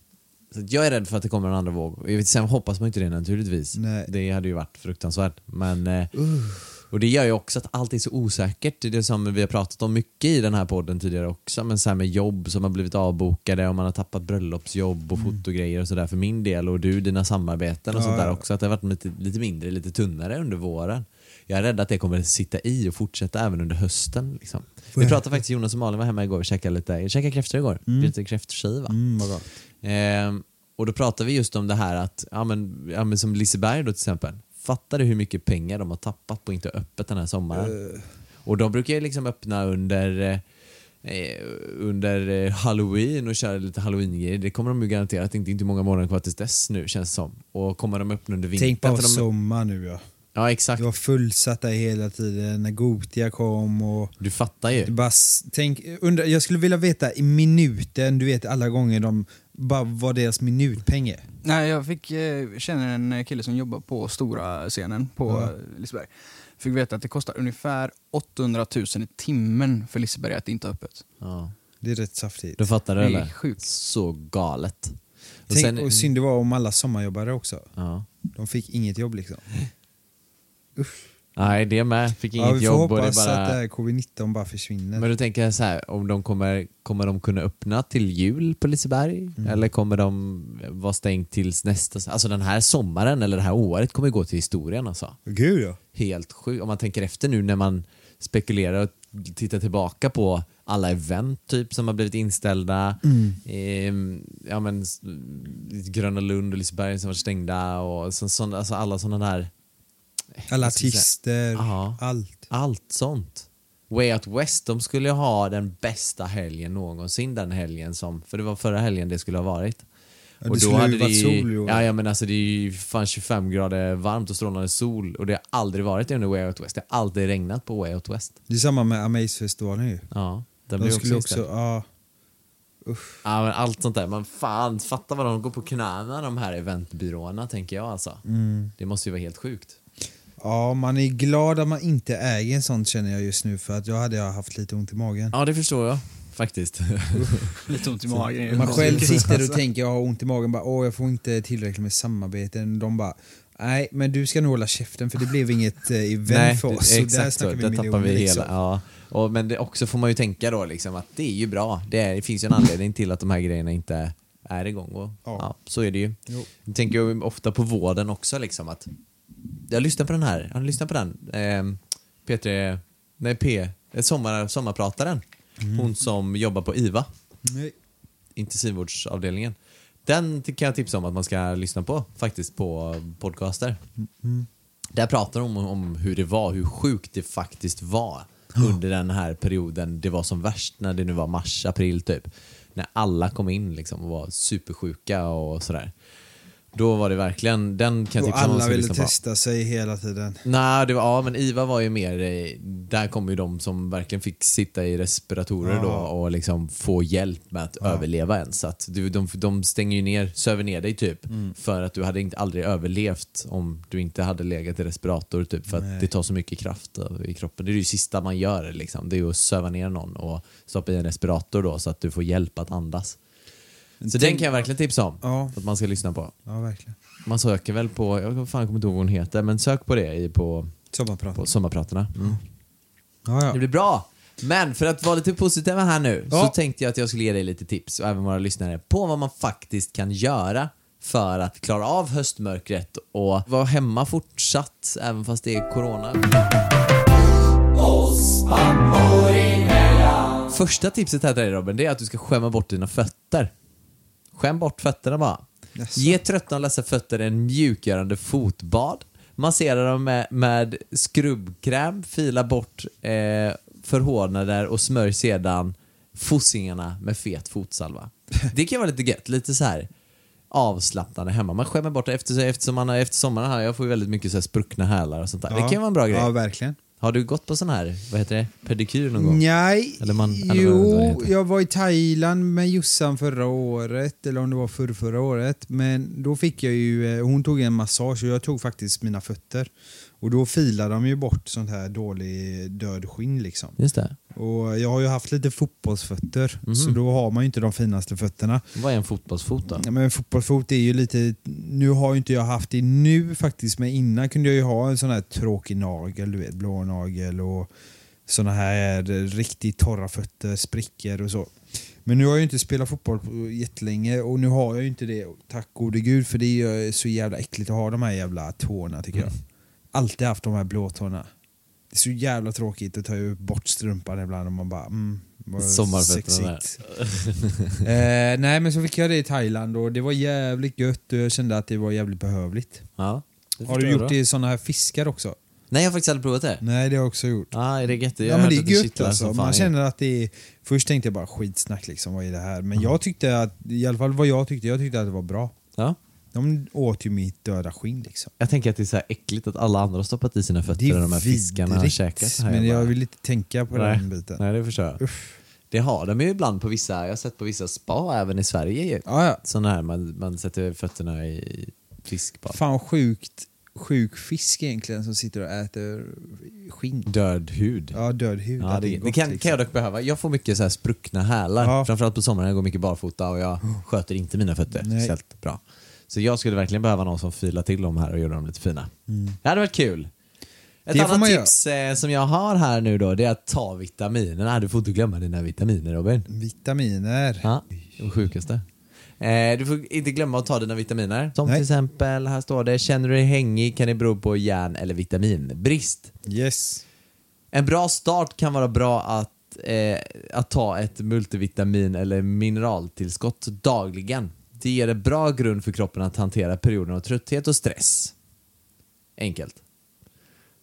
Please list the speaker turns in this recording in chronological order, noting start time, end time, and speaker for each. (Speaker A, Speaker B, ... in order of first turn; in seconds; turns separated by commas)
Speaker A: 0.5-6.2, Speaker B: 3.8-4.1, Speaker B: 6.2-6.6, Speaker A: 6.7-29.0, Speaker B: 17.9-18.4, Speaker B: 24.9-25.4, Speaker B: 27.9-28.1, Speaker B: 28.9-29.5, Speaker A: 29.8-37.8, Speaker B: 37.5-38.0, Speaker A: 38.4-40.4, Speaker A: 41.0-49.2, Speaker B: 48.6-50.0, Speaker A: 50.3-50.9, Speaker B: 50.8-54.1, Speaker A: 54.2-54.9, Speaker B: 54.8-61.2, Speaker C: 61.4-71.0, Speaker B: 65.3-65.5, Speaker A: 71.2-71.5, Speaker B: 71.8-72.6, Speaker A: 72.6-76.1, Speaker C: 73.0-73.6, Speaker B: 75.5-77.7, Speaker A: 77.8-78.1, Speaker B: 78.3-79.5, Speaker B: 80.8-81.0, Speaker A: 81.3-83.6, Speaker B: 82.3-85.1, Speaker A: 85.0-95.2, Speaker B: 95.2-95.8, Speaker A: 95.9-109.5, Speaker B: 103.0-103.4, Speaker A: 110.4-119.8, Speaker B: 110.5-112.5, Speaker B: 120.4-121.9, Speaker A: 120.5-128.3, Speaker B: 128.5-130.1, Speaker A: 130.1-131.4, Speaker B: 130.8-131.8, Speaker B: 132.8-133.2, Speaker A: 133.2-138.2, Speaker B: 138.2-138.7, Speaker A: 138.8-139.8, Speaker B: 140.4-145.3, Speaker A: 145.3-147.7, Speaker C: 147.6-149.6, Speaker A: 148.5-149.3, Speaker B: 148.5-158.5, Speaker A: 156.3-168.9, Speaker B: 165.2-165.5, Speaker A: 169.7-177.1, Speaker B: 175.6-175.9, Speaker B: 177.4-177.7, Speaker A: 178.3-183.8, Speaker B: 184.0-184.5, Speaker A: 184.9-195.9, Speaker A: 196.7-199.1, Speaker B: 198.2-200.4, Speaker A: 200.4-223.2, Speaker B: 205.6-206.1, Speaker B: 215.7-216.1, Speaker B: 224.0-224.5, Speaker A: 224.1-226.3, Speaker B: 225.2-225.5, Speaker B: 226.4-226.9, Speaker A: 227.2-230.7, Speaker B: 230.9-231.5, Speaker A: 231.3-232.4, Speaker B: 233.2-233.6, Speaker A: 233.5-246.2, Speaker A: 250.5-253.5, Speaker A: 254.3-269.9, Speaker B: 255.8-256.2, Speaker A: 270.5-276.3, Speaker B: 275.5-276.8, Speaker A: 277.0-279.4, Speaker B: 279.2-293.8, Speaker A: 280.0-281.3, Speaker A: 293.8-294.2, Speaker B: 294.3-298.6, Speaker A: 296.7-297.0, Speaker A: 298.7-299.9, Speaker B: 299.6-307.7, Speaker B: 308.3-319.4, Speaker B: 319.9-321.3, Speaker B: 321.9-326.8, Speaker A: 325.6-327.9, Speaker B: 327.8-332.9, Speaker A: 333.0-334.1, Speaker B: 333.6-335.4, Speaker A: 335.7-336.6, Speaker B: 336.6-337.5, Speaker A: 337.5-339.7, Speaker B: 338.2-345.5, Speaker B: 346.3-348.3, Speaker A: 348.4-352.9, Speaker B: 350.8-354.4, Speaker A: 353.7-355.0, Speaker B: 355.0-355.4, Speaker A: 355.7-362.6, Speaker B: 359.0-359.4, Speaker B: 362.5-367.1, Speaker A: 367.1-368.0, Speaker B: 367.9-369.5, Speaker A: 368.6-378.9, Speaker B: 371.6-371.9, Speaker B: 374.8-375.1, Speaker B: 379.1-379.4, Speaker A: 379.4-380.1, Speaker A: 380.9-386.3, Speaker B: 380.9-381.5, Speaker B: 386.3-387.5, Speaker A: 387.4-388.6, Speaker A: 389.2-396.1, Speaker B: 396.2-396.8, Speaker A: 397.5-408.1, Speaker A: 409.2-409.6